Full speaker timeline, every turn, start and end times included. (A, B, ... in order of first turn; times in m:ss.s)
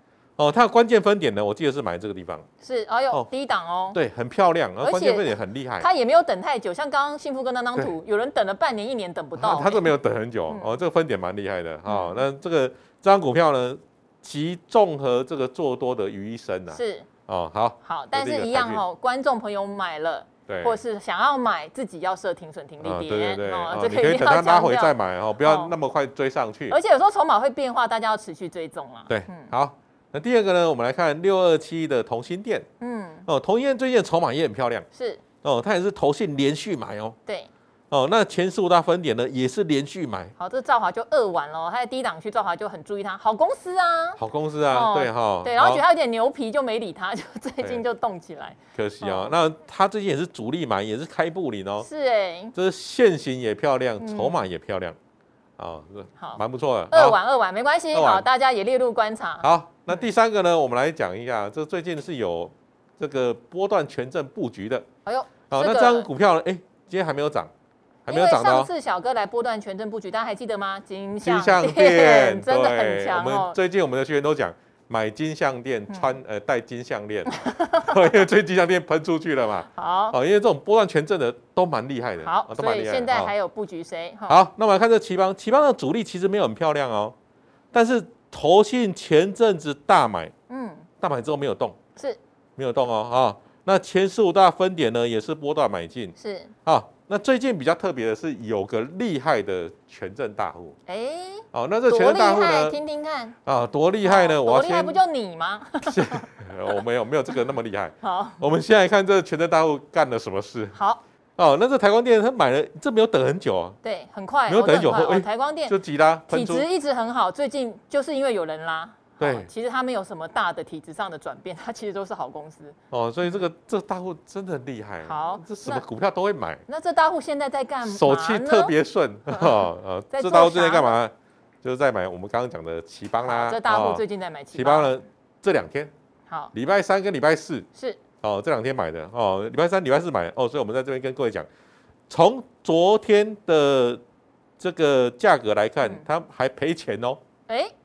0:00.4-0:02.5 A
0:02.6-0:04.0 B
0:03.9-0:05.9 A
0:04.8-0:09.9 B
0:09.4-0:18.8 A
0:10.5-0:10.8 B
0:11.9-0:12.2 B
0:16.7-0:17.1 B
0:17.8-0:25.8 B
0:20.5-0:20.8 A
0:22.8-0:26.8 A
0:26.7-0:29.5 B
0:29.1-0:32.7 A
0:32.8-0:33.3 B
0:33.3-0:34.9 A
0:34.9-0:35.2 B
0:35.4-0:37.2 A
0:37.9-0:40.3 A
0:40.4-0:49.4 B
0:44.2-0:45.8 A
0:48.8-0:51.9 A
0:51.8-0:52.5 B
0:52.6-0:55.0 A
0:54.0-0:54.4 B
0:55.6-0:57.2 A
0:56.2-1:00.1 B
0:57.9-0:58.3 A
0:59.4-1:04.8 A
1:05.1-1:06.1 B
1:05.5-1:07.5 A
1:08.1-1:08.7 A
1:08.1-1:13.6 B
1:11.2-1:23.3 A
1:15.9-1:16.2 B
1:17.3-1:17.9 B
1:19.7-1:20.2 B
1:22.2-1:24.4 B
1:24.3-1:27.2 A
1:27.7-1:30.3 A
1:30.5-1:30.9 B
1:31.0-1:31.8 A
1:32.6-1:40.8 A
1:36.2-1:36.5 B
1:40.9-1:43.4 B
1:41.5-1:42.8 A
1:43.5-1:45.0 A
1:44.0-1:46.3 B
1:45.9-1:50.8 A
1:48.0-1:48.4 B
1:50.8-1:51.0 B
1:51.4-1:53.8 A
1:53.8-1:55.8 B
1:54.5-1:56.7 A
1:56.3-2:03.4 B
1:59.2-1:59.5 A
2:02.9-2:06.6 A
2:05.0-2:05.9 B
2:06.7-2:08.7 B
2:07.8-2:15.9 A
2:09.3-2:11.0 B
2:13.2-2:14.9 B
2:16.5-2:17.7 A
2:18.2-2:21.5 A
2:22.1-2:24.0 A
2:24.6-2:27.2 A
2:27.5-2:27.7 B